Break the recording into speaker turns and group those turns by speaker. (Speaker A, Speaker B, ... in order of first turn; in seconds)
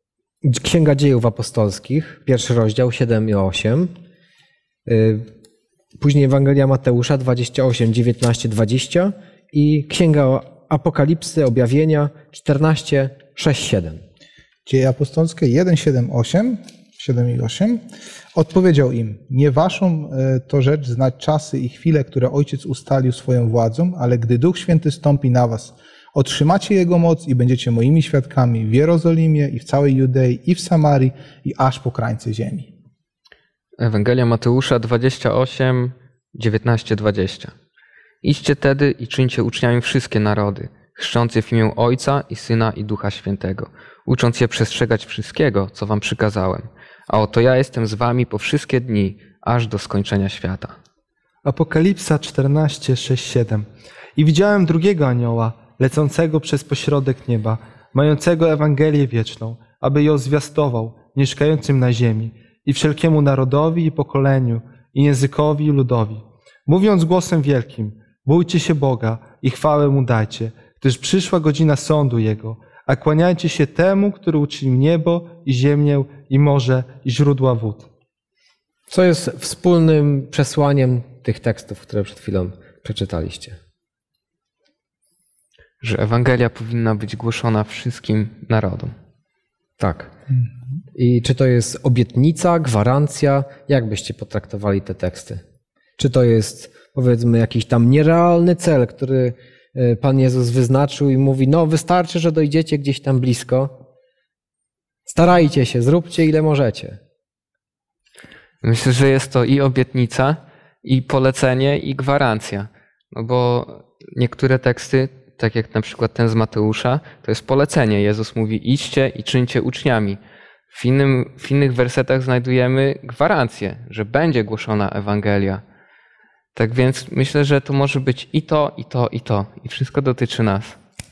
Speaker A: 0.4-3.9, 4.8-5.3, 6.0-14.0, 78.9-83.6, 89.8-90.1, 90.9-95.4, 96.0-103.8, 105.1-107.0
Speaker B: 14.7-17.8, 18.3-32.7
Speaker C: 33.8-37.5, 38.2-50.8, 85.8-88.9, 108.6-120.2, 120.7-125.6, 126.5-130.8
Speaker D: 51.4-77.9